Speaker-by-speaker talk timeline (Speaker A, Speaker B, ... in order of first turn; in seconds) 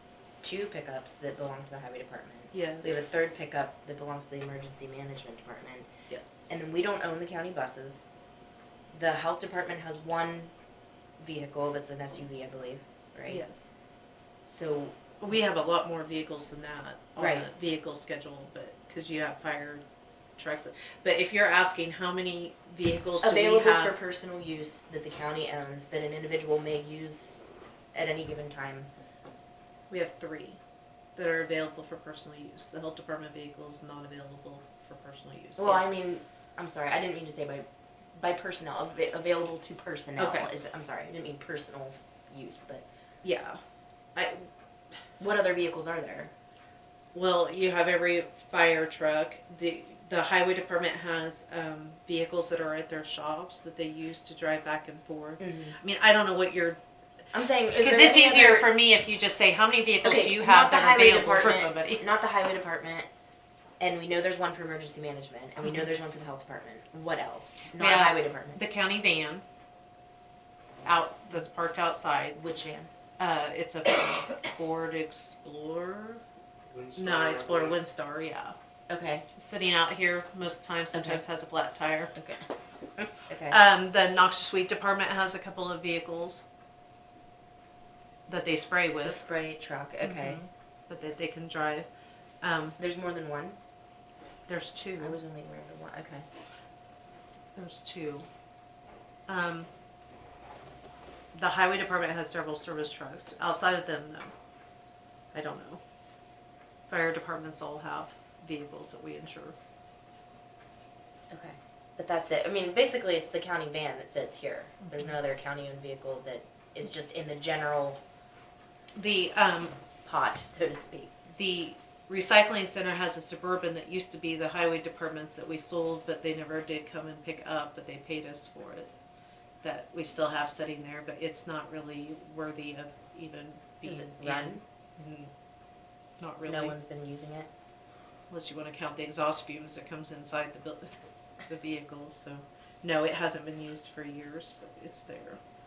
Speaker A: 0.4-5.9, 6.5-8.1, 8.9-10.5, 11.2-13.4, 14.5-15.0, 17.2-17.5, 23.2-27.4, 27.9-28.9, 35.6-42.9, 45.2-46.3, 55.4-55.8, 57.3-58.7, 60.0-63.1, 63.8-68.6, 72.4-72.9, 78.9-79.3, 80.9-81.2, 82.2-82.5, 83.0-83.6, 89.0-90.4, 92.8-93.6, 95.0-96.3, 111.3-118.0, 120.0-121.3, 133.8-134.6, 136.4-137.5
Speaker B: 2.5-3.0, 6.1-6.5, 13.3-13.7, 15.2-19.8, 20.4-24.0, 29.9-30.6, 31.2-35.9, 40.2-40.5, 43.2-43.6, 44.1-44.5, 47.1-56.8, 57.7-62.0, 67.7-69.4, 70.8-72.4, 73.2-76.2, 76.9-78.6, 79.4-82.1, 83.5-86.5, 88.3-89.2, 90.0-91.9, 92.4-92.8, 94.5-95.2, 97.6-98.3, 99.3-99.7, 101.3-104.3, 105.3-105.8, 106.9-109.5, 119.0-119.7, 121.3-128.9, 129.6-135.3, 136.2-136.8, 138.3-145.4